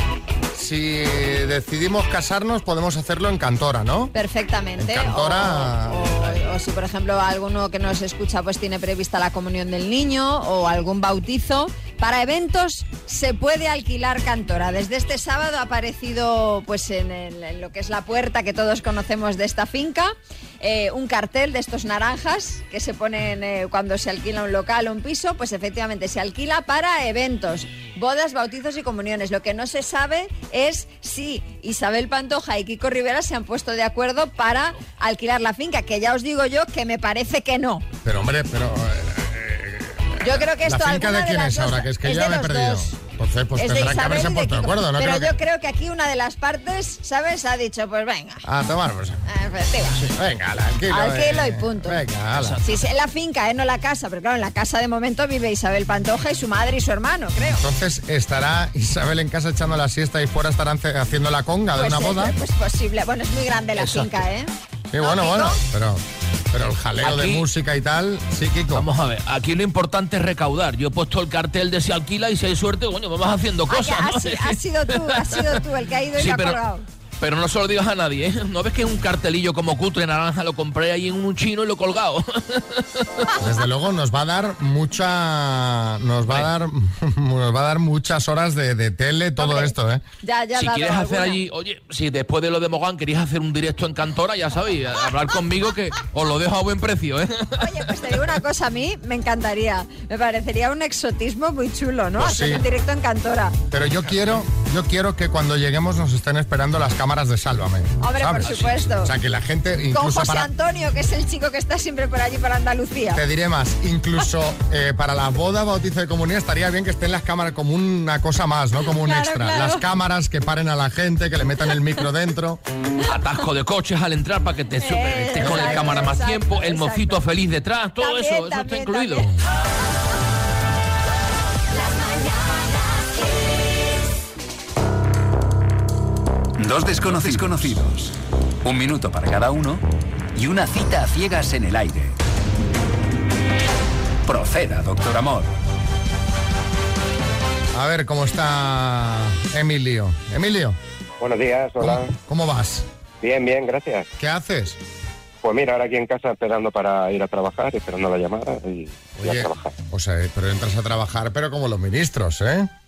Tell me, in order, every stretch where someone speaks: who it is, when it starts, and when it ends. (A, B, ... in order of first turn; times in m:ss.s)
0:00.5-0:04.1 A
0:04.1-0:37.9 B
0:04.8-0:06.4 A
0:38.0-0:45.3 A
0:40.2-0:42.9 B
0:43.6-0:48.4 B
0:48.4-0:49.2 A
0:49.3-0:50.1 B
0:50.1-0:52.6 A
0:50.9-0:52.0 B
0:52.6-0:57.6 B
0:57.6-1:02.4 A
1:01.8-1:04.5 B
1:03.8-1:04.1 C
1:04.9-1:08.9 A
1:05.0-1:05.6 B
1:07.0-1:07.5 C
1:08.7-1:15.6 C
1:13.7-1:16.8 B
1:16.2-1:16.6 C
1:17.2-1:23.3 C
1:23.4-1:30.0 A
1:29.4-1:31.4 B
1:30.6-1:37.8 C
1:37.6-1:43.6 B
1:42.2-1:42.6 A
1:43.7-1:50.5 A
1:48.0-1:49.1 B
1:48.4-1:48.7 C
1:49.9-1:53.2 B
1:53.1-2:02.6 A
1:58.9-1:59.8 B
2:03.0-2:09.3 C
2:04.8-2:07.2 B
2:05.4-2:06.0 A
2:08.0-2:09.3 B
2:16.6-2:19.8 D
2:20.4-2:22.2 D
2:24.3-2:25.5 D
2:27.7-2:30.8 A
2:31.2-2:32.1 E
2:31.8-2:32.9 A
2:33.2-2:34.1 E
2:34.2-2:34.8 A
2:35.4-2:39.7 E
2:39.2-2:42.7 A